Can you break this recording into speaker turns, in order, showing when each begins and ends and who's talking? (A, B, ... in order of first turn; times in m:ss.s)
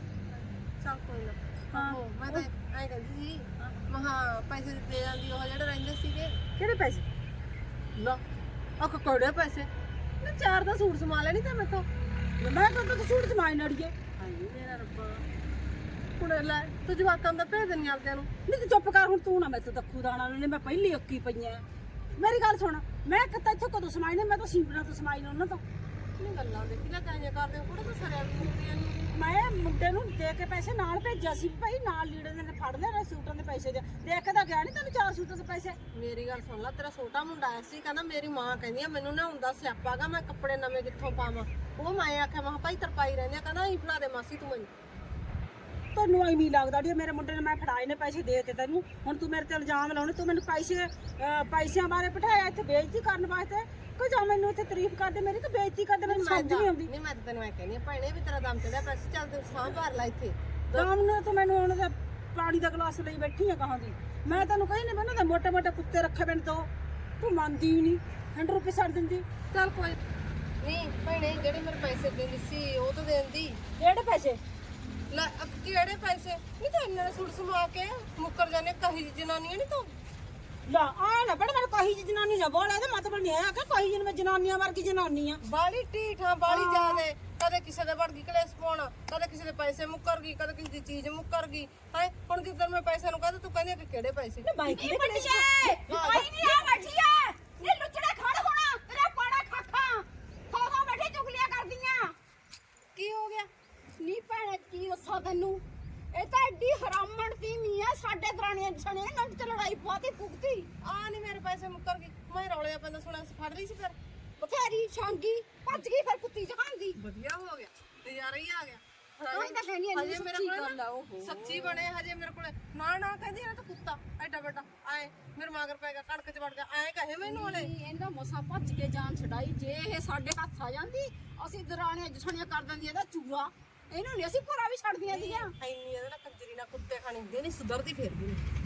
0:00.3-0:07.0 A
0:01.7-0:02.5 B
0:08.0-0:08.2 A
0:08.8-0:09.7 A
0:10.2-0:11.9 A
0:12.4-0:14.0 B
0:14.2-0:15.2 A
0:16.2-0:18.3 A
0:18.5-0:21.6 B
0:22.1-0:25.6 B
0:26.2-0:29.0 A
0:29.1-0:35.8 B
0:35.9-0:44.7 A
0:45.9-0:56.9 B
0:56.0-1:00.9 A
1:00.7-1:06.7 B
1:07.2-1:09.2 B
1:09.5-1:10.0 A
1:10.6-1:13.6 A
1:13.8-1:14.4 B
1:15.1-1:19.9 A
1:20.6-1:25.4 B
1:25.4-1:34.5 A
1:26.6-1:27.0 B
1:34.4-1:35.8 B
1:34.6-1:42.1 C
1:35.9-1:36.7 A
1:43.0-1:43.5 A
1:44.0-1:50.7 C
1:50.8-1:54.0 A
1:54.4-1:57.0 C
1:57.0-2:07.7 A
1:59.3-2:01.8 C
2:07.2-2:15.5 C
2:15.1-2:18.4 A